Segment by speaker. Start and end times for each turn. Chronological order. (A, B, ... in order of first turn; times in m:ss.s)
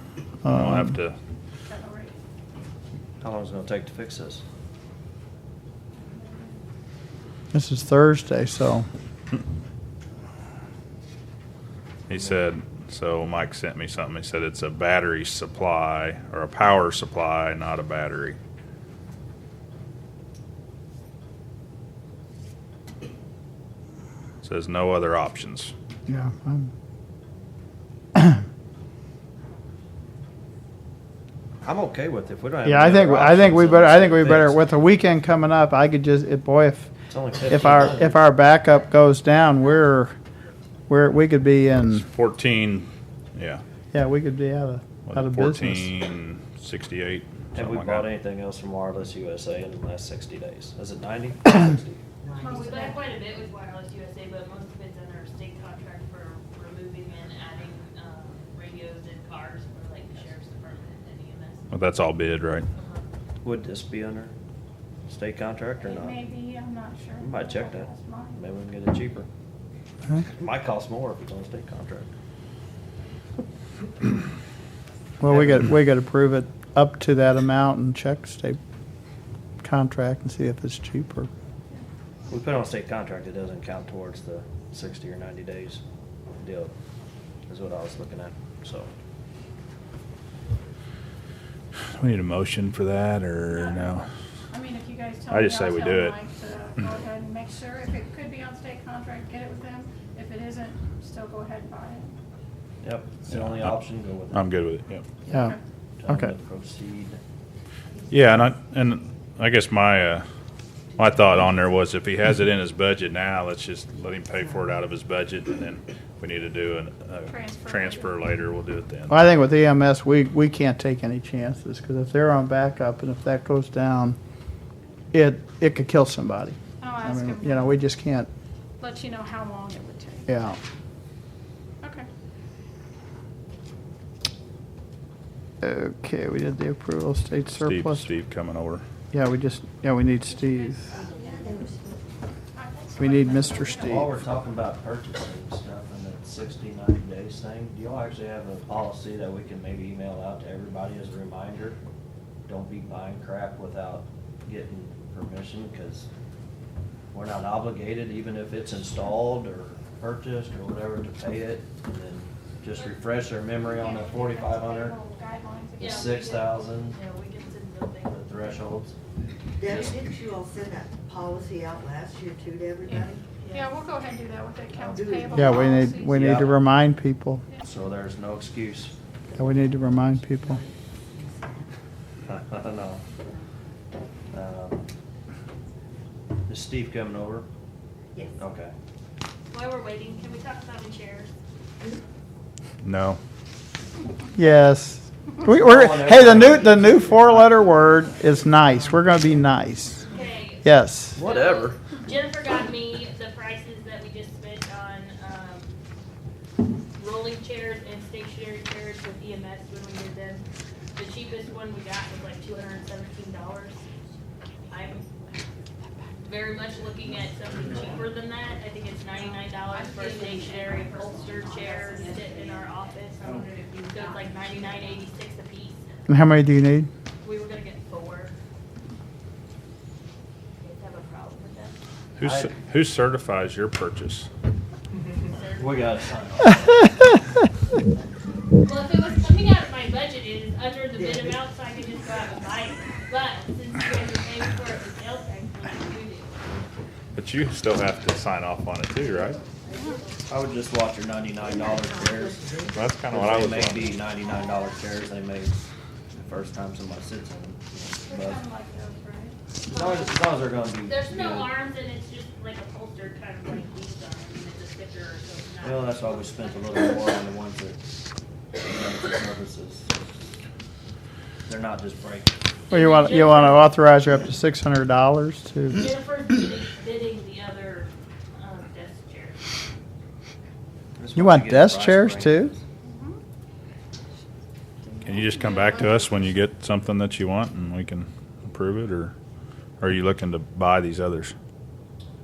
0:00.4-0:01.0 A
0:00.5-0:01.2 B
0:01.7-0:02.2 C
0:03.2-0:04.4 D
0:07.5-0:08.8 A
0:12.1-0:18.4 B
0:24.4-0:25.7 B
0:26.1-0:26.7 A
0:31.6-0:34.7 D
0:32.6-0:36.9 A
0:37.1-0:38.2 D
0:37.4-0:40.1 A
0:40.9-0:42.0 A
0:41.9-0:43.6 B
0:43.9-0:45.9 A
0:45.1-0:48.1 B
0:47.6-0:52.0 D
0:52.2-0:52.8 E
0:52.4-0:53.0 C
0:52.4-1:01.6 F
1:01.7-1:02.7 B
1:02.8-1:03.0 F
1:03.4-1:04.3 D
1:05.1-1:06.2 D
1:05.8-1:08.4 C
1:07.2-1:09.3 D
1:10.4-1:12.1 D
1:15.2-1:18.6 A
1:15.3-1:15.6 D
1:19.6-1:21.3 A
1:22.3-1:25.8 D
1:26.4-1:26.7 D
1:27.5-1:28.9 D
1:32.0-1:34.0 B
1:33.5-1:42.1 C
1:35.3-1:36.2 B
1:42.8-1:44.5 D
1:43.3-1:43.8 B
1:44.3-1:45.0 B
1:45.3-1:45.6 A
1:46.0-1:47.2 D
1:48.1-1:50.2 B
1:51.0-1:59.2 B
1:57.3-1:58.2 C
1:59.1-2:04.2 A
2:05.1-2:08.3 A
2:06.8-2:07.7 C
2:08.8-2:10.4 C
2:10.3-2:10.6 A
2:11.8-2:12.1 C
2:15.6-2:18.1 A
2:17.6-2:18.8 B
2:19.1-2:20.9 A
2:20.9-2:22.1 E
2:22.6-2:24.1 C
2:23.0-2:24.2 A
2:23.8-2:31.8 D
2:32.5-2:36.1 D
2:37.1-2:45.0 D
2:43.6-2:46.4 C
2:45.8-2:48.2 F
2:45.8-2:47.0 D
2:48.1-2:49.0 D
2:49.6-2:53.2 E
2:49.7-2:49.9 D
2:52.9-2:56.4 C
2:53.4-2:53.8 F
2:54.8-2:55.9 E
2:55.3-2:57.4 A
2:56.0-2:56.6 D
2:57.6-2:58.9 D
2:59.4-3:00.6 A
3:00.4-3:01.7 E
3:02.3-3:03.0 D
3:04.3-3:04.9 D
3:06.5-3:07.5 D
3:08.4-3:08.7 D
3:09.5-3:11.3 F
3:12.8-3:13.2 B
3:14.4-3:20.0 A
3:15.5-3:17.8 D
3:20.1-3:25.8 F
3:20.6-3:21.2 A
3:21.1-3:21.8 D
3:27.0-3:30.4 F
3:31.0-3:33.9 F
3:34.7-3:35.0 F
3:36.2-3:46.2 F
3:40.0-3:45.0 E
3:46.1-3:46.9 A
3:47.2-3:48.3 F
3:50.6-3:51.8 F
3:52.2-3:54.3 B
3:52.2-3:52.5 D
3:55.2-3:56.5 F
3:55.6-3:56.9 D
3:58.6-4:06.5 F
4:07.2-4:09.4 B
4:09.0-4:10.2 F
4:10.3-4:18.4 D
4:11.8-4:12.8 E
4:12.7-4:14.0 B
4:18.1-4:19.4 C
4:19.7-4:21.5 D
4:19.7-4:20.3 F
4:20.8-4:27.0 F
4:25.6-4:27.8 D
4:28.5-4:29.9 D
4:31.5-4:32.4 D
4:32.7-4:33.8 F
4:32.7-4:35.9 A
4:35.7-4:39.4 F
4:41.0-4:42.6 D
4:41.2-4:42.5 A
4:42.8-4:43.2 C
4:44.8-4:46.3 C
4:45.0-4:49.1 B
4:49.8-4:51.3 B